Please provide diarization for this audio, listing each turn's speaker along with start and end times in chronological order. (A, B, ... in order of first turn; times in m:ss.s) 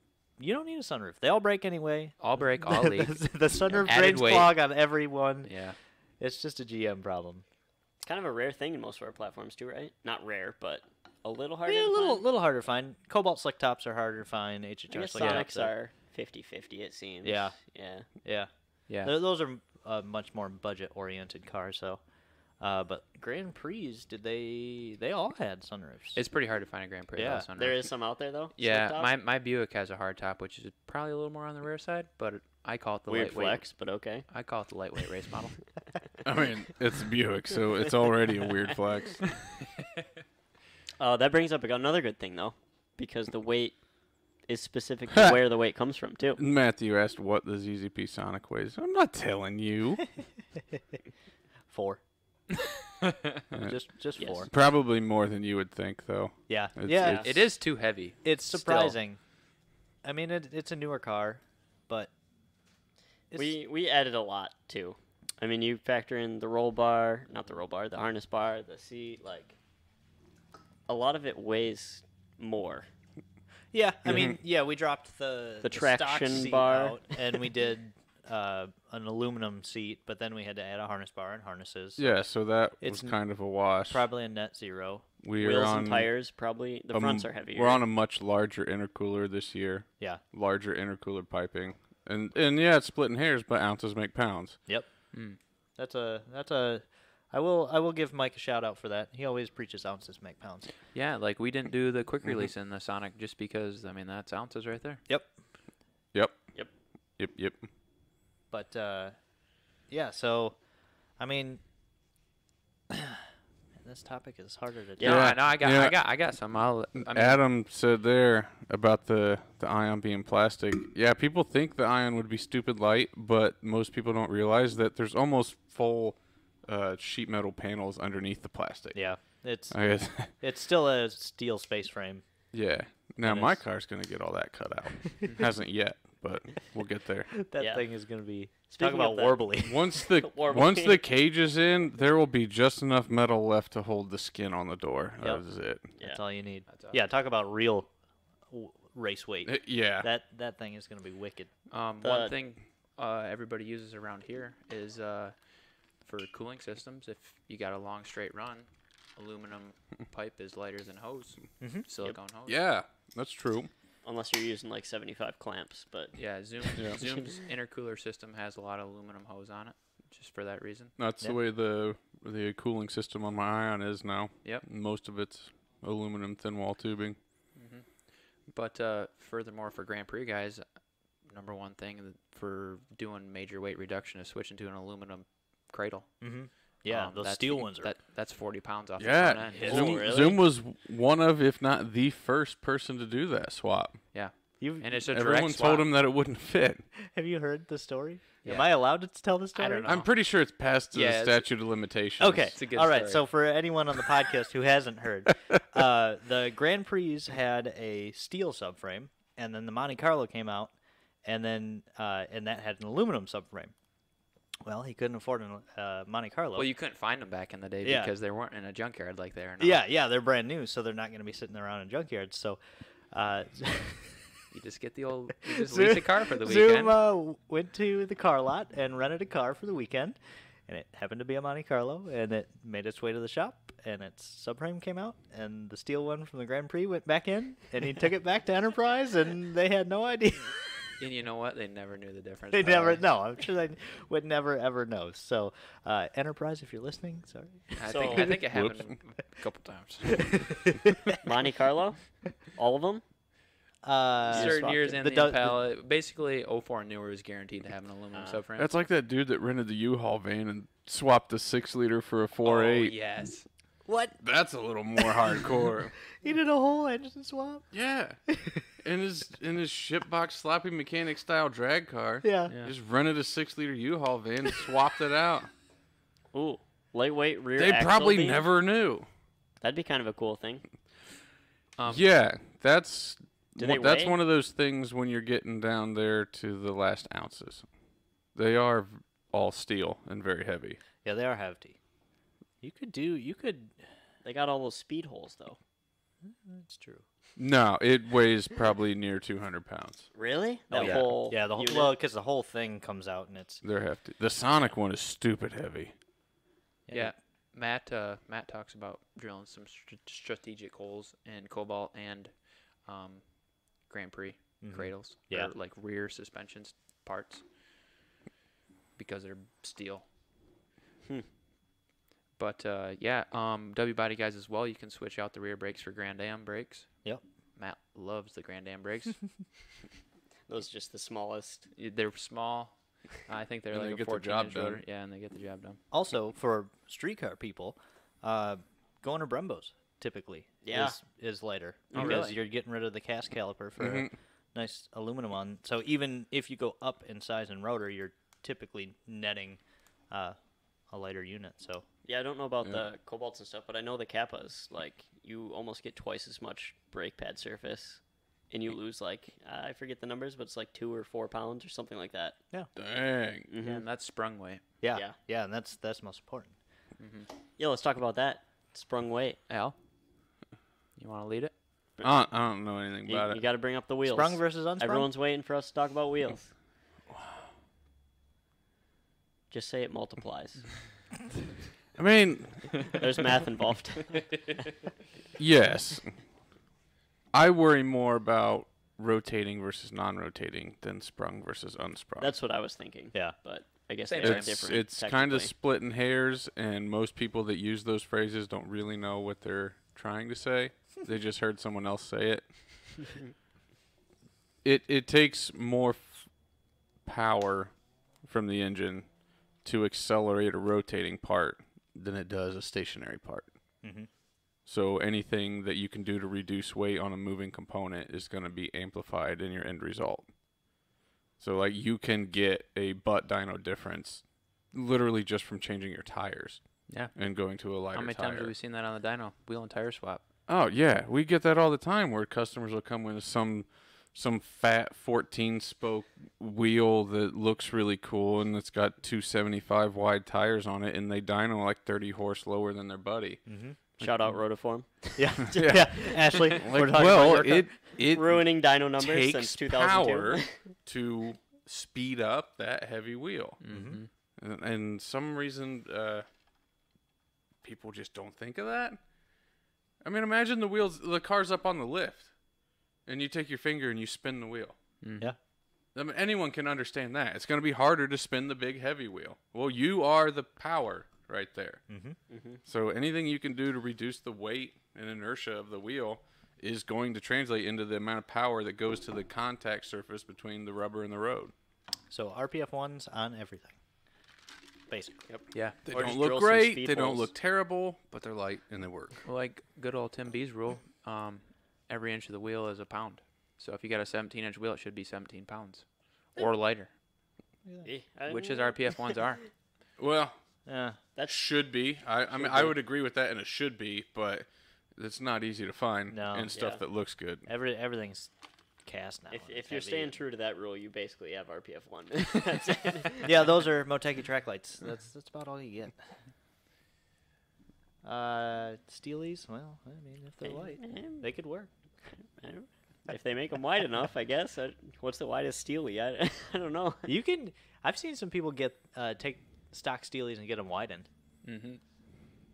0:00.4-0:05.5 A
0:02.2-0:04.6 B
0:05.4-0:05.8 B
0:06.2-0:07.4 A
0:08.0-0:12.2 C
0:11.7-0:15.7 A
0:14.9-0:18.1 C
0:17.2-0:17.6 A
0:18.2-0:18.5 A
0:18.9-0:19.2 B
0:19.0-0:22.0 A
0:22.6-0:26.2 A
0:26.2-0:27.9 B
0:27.2-0:27.5 A
0:27.6-0:29.1 C
0:28.6-0:33.6 B
0:33.1-0:34.3 C
0:34.3-0:35.6 B
0:36.2-0:39.5 D
0:41.0-0:43.8 C
0:44.5-0:46.4 C
0:46.4-0:50.1 D
0:51.7-0:52.0 A
0:53.0-0:53.4 B
0:53.5-0:53.8 D
0:53.5-0:54.5 A
0:54.2-0:54.5 C
0:54.5-0:57.3 D
0:56.5-0:57.3 A
0:57.0-0:57.3 C
0:57.2-0:59.0 B
0:58.2-0:59.2 A
1:00.0-1:02.1 A
1:03.3-1:03.6 A
1:03.3-1:09.6 C
1:10.9-1:12.9 C
1:13.7-1:22.2 A
1:15.6-1:17.0 C
1:22.0-1:24.0 D
1:22.8-1:23.2 A
1:23.9-1:25.1 A
1:25.2-1:26.1 D
1:25.4-1:27.8 C
1:26.9-1:34.6 D
1:35.1-1:35.4 B
1:35.8-1:40.7 A
1:40.9-1:45.0 B
1:47.2-1:47.6 D
1:48.5-1:49.2 A
1:49.9-1:50.6 A
1:51.2-1:51.6 A
1:52.9-1:53.2 A
1:53.8-1:55.1 A
1:55.0-1:55.3 C
1:55.0-1:57.4 B
1:55.0-1:56.0 D
1:57.0-2:09.0 D
2:08.9-2:09.8 A
2:09.7-2:10.3 D
2:10.4-2:12.2 A
2:12.5-2:17.3 D
2:13.2-2:13.6 A
2:17.4-2:20.0 A
2:17.6-2:17.8 C
2:18.7-2:21.0 C
2:19.6-2:25.9 D
2:26.0-2:27.9 A
2:26.7-2:27.0 B
2:28.5-2:31.5 A
2:29.5-2:30.1 D
2:31.7-2:35.4 B
2:32.0-2:32.4 C
2:36.0-2:42.6 B
2:41.6-2:41.9 A
2:42.5-2:43.7 D
2:44.0-2:46.1 C
2:46.2-2:50.9 B
2:46.8-2:47.2 C
2:51.0-2:57.2 D
2:57.6-2:57.8 B
2:58.5-3:00.6 B
3:01.3-3:06.1 B
3:06.2-3:07.9 A
3:06.9-3:10.0 B
3:09.0-3:14.0 D
3:09.6-3:10.4 C
3:09.6-3:10.3 A
3:14.1-3:15.9 B
3:14.6-3:14.9 A
3:15.1-3:16.9 D
3:17.0-3:20.0 A
3:18.4-3:18.8 B
3:19.6-3:20.1 B
3:19.9-3:22.5 D
3:20.9-3:21.5 B
3:22.2-3:30.7 A
3:22.6-3:23.2 B
3:31.2-3:33.7 A
3:34.6-3:36.7 A
3:36.6-3:39.8 B
3:37.8-3:38.1 A
3:39.6-3:42.6 A
3:43.1-3:44.2 A
3:44.5-3:47.0 B
3:45.4-3:50.2 A
3:50.7-4:00.6 A
4:01.0-4:03.0 B
4:02.5-4:08.4 A
4:07.8-4:10.4 B
4:07.9-4:08.3 C
4:08.5-4:08.9 D
4:10.3-4:11.2 A
4:11.2-4:13.0 C
4:13.8-4:15.6 A
4:14.3-4:18.7 B
4:14.3-4:14.8 C
4:18.1-4:18.4 C
4:18.6-4:22.9 D
4:22.4-4:23.4 B
4:23.8-4:24.2 A
4:24.2-4:25.9 D
4:25.0-4:25.4 A
4:26.1-4:27.7 A
4:27.7-4:28.2 D
4:28.3-4:28.7 A
4:28.8-4:35.5 D
4:32.2-4:32.5 A
4:32.5-4:32.7 B
4:36.3-4:38.5 C
4:37.6-4:39.1 D
4:39.6-4:40.6 C
4:41.8-4:42.0 B
4:41.9-4:47.7 D
4:43.6-4:44.2 C
4:48.4-4:50.8 D
4:51.0-4:51.8 A
4:52.6-4:53.8 A
4:54.2-4:55.6 C
4:56.2-4:57.0 A
4:57.4-5:00.1 D
5:00.1-5:01.9 C
5:00.7-5:03.6 A
5:00.8-5:01.0 B
5:03.6-5:05.9 D
5:06.9-5:07.2 A
5:06.9-5:12.3 B
5:12.9-5:13.2 B
5:13.9-5:17.4 B
5:14.6-5:15.5 A
5:19.0-5:20.0 B
5:22.4-5:26.9 B
5:27.6-5:29.2 B
5:30.5-5:31.7 C
5:31.8-5:32.7 B
5:33.2-5:35.8 B
5:33.7-5:34.8 D
5:35.9-5:49.6 A
5:40.6-5:41.0 C
5:41.9-5:42.3 C
5:42.0-5:42.3 B
5:43.8-5:44.1 D
5:50.1-5:50.4 A
5:50.9-5:51.8 A
5:52.1-5:58.0 C
5:58.5-6:02.4 C
6:02.8-6:03.5 D
6:03.5-6:03.8 C
6:03.6-6:04.6 B
6:04.8-6:06.6 A
6:07.0-6:07.3 B
6:07.6-6:09.4 C
6:09.5-6:09.8 B
6:11.0-6:11.5 B
6:12.0-6:13.4 D
6:13.1-6:16.5 C
6:14.0-6:15.1 A
6:19.5-6:20.6 C
6:22.0-6:22.9 D
6:22.9-6:24.3 C
6:25.4-6:26.1 D
6:27.3-6:32.3 D
6:32.2-6:35.5 C
6:34.0-6:34.6 B
6:34.2-6:42.5 D
6:44.6-6:46.3 D
6:47.0-6:47.7 D
6:48.2-6:49.1 D
6:49.6-6:53.5 D
6:53.8-6:54.1 A
6:54.7-7:00.3 D
7:01.4-7:06.6 D
7:07.1-7:08.5 D
7:07.9-7:10.2 B
7:10.5-7:23.4 D
7:23.5-7:23.8 A
7:24.0-7:26.6 C
7:25.2-7:27.7 A
7:25.5-7:28.5 D
7:28.0-7:30.6 C
7:29.0-7:33.6 D
7:33.6-7:34.1 B
7:33.7-7:34.0 A
7:34.4-7:36.3 D
7:37.6-7:39.0 D
7:40.0-7:42.3 D
7:43.1-7:44.8 D
7:45.0-7:45.3 B
7:45.9-7:51.8 D
7:51.9-7:52.2 A
7:52.3-7:52.6 C
7:52.7-8:01.5 D
8:02.1-8:03.8 A
8:04.9-8:05.3 A
8:05.5-8:05.8 B
8:05.9-8:09.2 D
8:05.9-8:07.3 C
8:09.2-8:15.8 B
8:16.4-8:16.9 B
8:17.8-8:19.0 C
8:18.3-8:19.4 B
8:20.0-8:20.4 D
8:20.7-8:21.0 A
8:21.3-8:27.5 D
8:22.4-8:22.7 A
8:26.1-8:26.5 A
8:26.5-8:26.8 C
8:27.5-8:28.3 A
8:28.8-8:30.2 A
8:29.3-8:33.4 C
8:33.2-8:36.1 A
8:38.0-8:41.7 A
8:40.4-8:41.3 C
8:42.4-8:47.1 C
8:47.1-8:51.1 A
8:51.4-8:51.8 B